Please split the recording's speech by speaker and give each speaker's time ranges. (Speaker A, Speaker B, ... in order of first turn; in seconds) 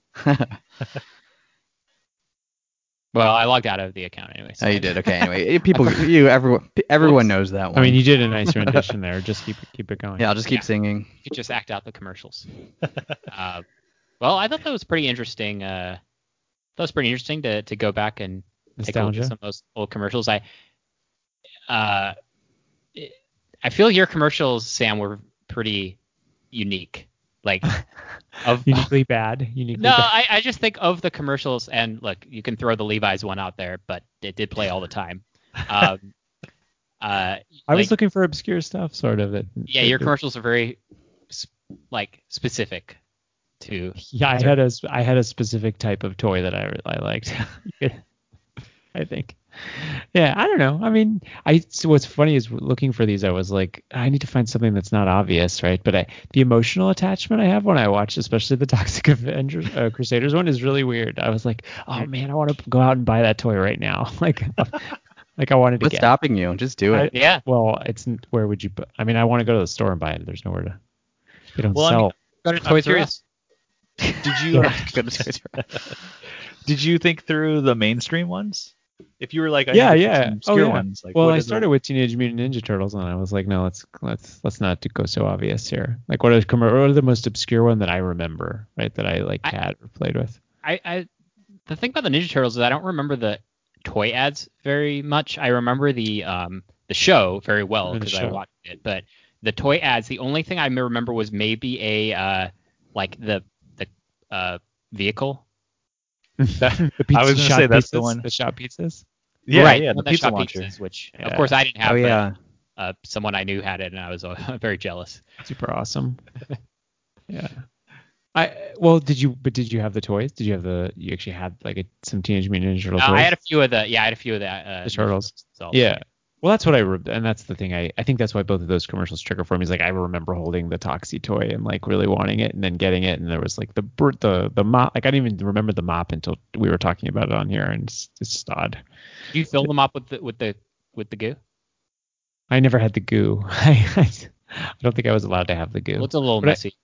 Speaker A: 0.2-0.6, 4.6-8.8, 10.2-11.1, 65.8-67.1, 74.1-75.6, 111.8-112.3
Speaker B: 3.1-5.0, 7.0-7.3, 11.2-12.5, 13.3-13.6, 14.2-16.0, 16.8-20.4, 21.7-22.1, 22.9-26.0, 26.5-27.7, 28.4-28.9, 29.8-36.1, 37.0-37.9, 39.7-40.8, 41.3-43.0, 43.6-44.5, 67.1-67.4, 72.5-73.2, 90.6-91.1, 91.7-105.4, 109.5-112.2, 112.8-115.2, 123.0-126.0, 139.3-141.4, 146.0-146.8
Speaker C: 7.7-10.3, 18.8-19.3, 28.6-30.1, 37.7-40.1, 44.0-48.0, 48.9-66.1, 66.9-70.8, 71.5-72.1, 79.7-90.4, 97.9-98.4, 106.4-109.0, 111.2-111.5, 115.4-116.2, 117.3-117.6, 118.3-123.3, 124.8-138.8, 142.5-146.6
Speaker D: 71.7-72.1, 72.6-73.1, 74.2-75.9, 76.7-81.7, 106.6-108.3, 109.5-110.7